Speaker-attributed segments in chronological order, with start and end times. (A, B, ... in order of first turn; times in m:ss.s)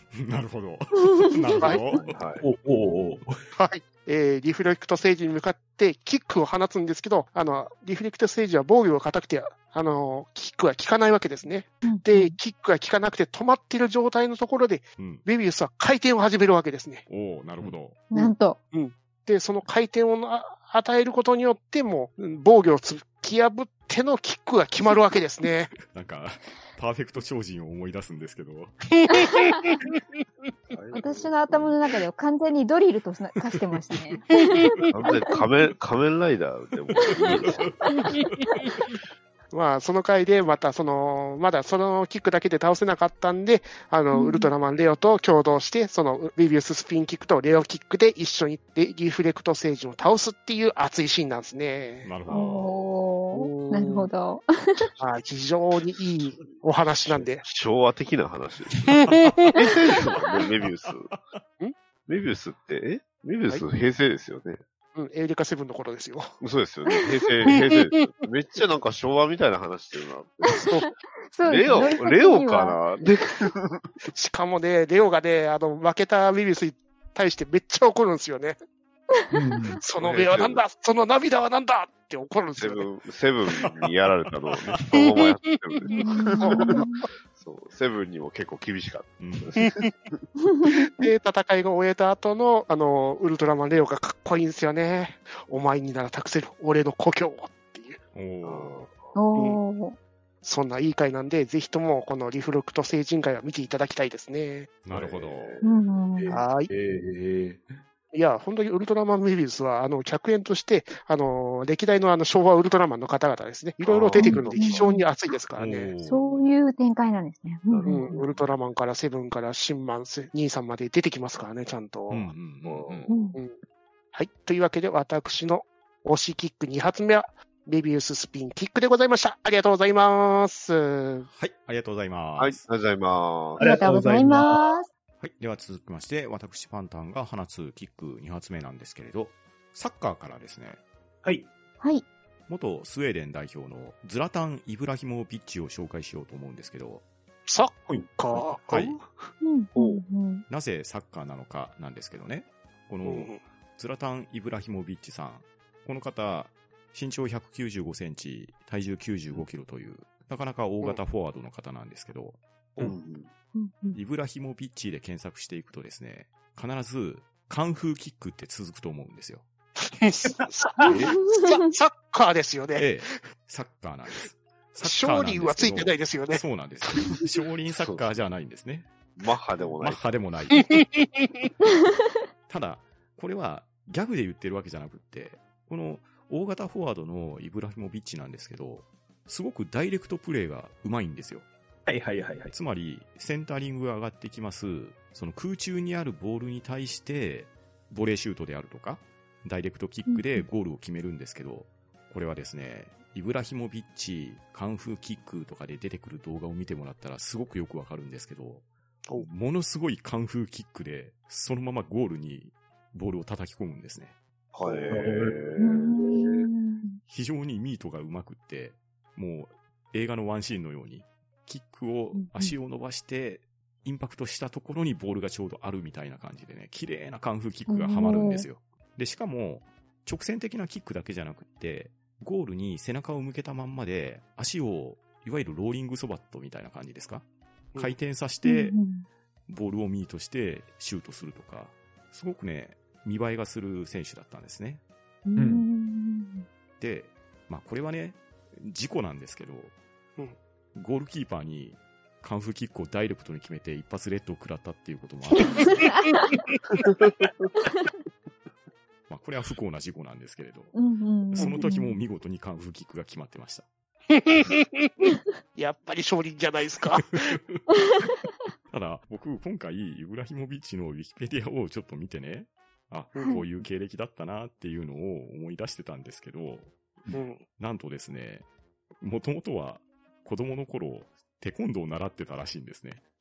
0:00.1-0:02.2 A
0:01.3-0:01.7 B
0:01.9-0:02.4 C
0:02.4-0:03.4 D
0:03.5-0:17.0 E
0:11.8-0:12.4 B
0:15.0-0:15.2 A
0:17.1-0:18.0 A
0:18.1-0:18.6 B
0:18.1-0:25.7 E
0:25.8-0:28.8 A
0:29.1-0:29.7 B
0:30.7-0:31.7 C
0:30.9-0:34.8 B
0:34.9-0:38.2 C
0:37.1-0:38.5 A
0:39.5-0:52.1 E
0:44.1-0:44.5 B
0:52.0-0:52.8 A
0:52.3-0:54.9 B
0:53.3-0:54.1 E
0:55.0-0:57.4 E
0:56.4-1:01.2 C
1:02.1-1:04.6 C
1:04.9-1:06.3 E
1:06.4-1:10.8 C
1:10.6-1:10.9 E
1:11.3-1:12.8 B
1:11.4-1:14.0 C
1:14.1-1:18.6 E
1:19.3-1:19.8 D
1:19.8-1:22.9 E
1:20.0-1:20.6 C
1:22.6-1:30.2 C
1:25.8-1:26.9 E
1:25.9-1:27.0 B
1:29.2-1:29.6 A
1:30.6-1:38.0 E
1:38.1-1:38.8 A
1:38.4-1:39.1 C
1:39.2-1:40.0 B
1:40.4-1:44.7 E
1:44.8-1:45.6 A
1:44.9-1:45.6 C
1:45.6-1:46.4 B
1:46.2-1:47.7 D
1:46.3-1:46.7 E
1:48.1-1:55.9 E
1:53.8-1:54.9 C
1:54.2-1:55.1 B
1:55.6-1:56.5 A
1:56.0-1:58.2 B
1:57.7-1:58.4 C
1:57.8-2:02.3 E
2:02.1-2:03.1 A
2:02.6-2:03.2 C
2:03.1-2:03.4 B
2:04.1-2:11.3 E
2:11.3-2:12.6 A
2:12.4-2:13.7 C
2:13.6-2:14.7 D
2:13.6-2:14.9 B
2:15.2-2:20.8 A
2:22.5-2:27.0 A
2:27.4-2:30.0 E
2:28.3-2:29.0 A
2:29.4-2:30.4 B
2:30.5-2:42.4 A
2:33.0-2:33.4 E
2:42.8-2:43.3 C
2:43.5-2:44.0 B
2:43.9-2:49.4 A
2:49.8-2:53.0 E
2:50.4-2:50.9 D
2:51.1-2:51.6 B
2:52.8-2:58.9 A
2:54.8-2:56.4 E
2:57.7-2:58.0 C
2:59.2-3:00.0 C
2:59.8-3:00.8 A
3:00.7-3:01.0 E
3:02.5-3:11.4 A
3:11.9-3:12.5 D
3:12.5-3:28.6 A
3:20.1-3:20.5 B
3:29.2-3:34.1 A
3:34.5-3:36.5 C
3:34.6-3:35.4 D
3:35.6-3:37.0 B
3:37.1-3:58.8 A
3:42.1-3:42.5 B
3:47.7-3:48.4 B
3:58.4-3:59.0 B
3:59.5-4:04.8 A
4:05.2-4:06.4 B
4:05.4-4:05.6 D
4:06.8-4:09.7 A
4:10.7-4:15.9 A
4:15.7-4:16.4 B
4:19.1-4:23.6 A
4:20.7-4:22.0 B
4:21.4-4:21.7 E
4:25.6-4:27.1 E
4:27.0-4:27.6 A
4:28.7-4:38.4 A
4:33.1-4:33.4 E
4:33.2-4:33.4 B
4:37.1-4:37.4 E
4:39.0-4:43.0 A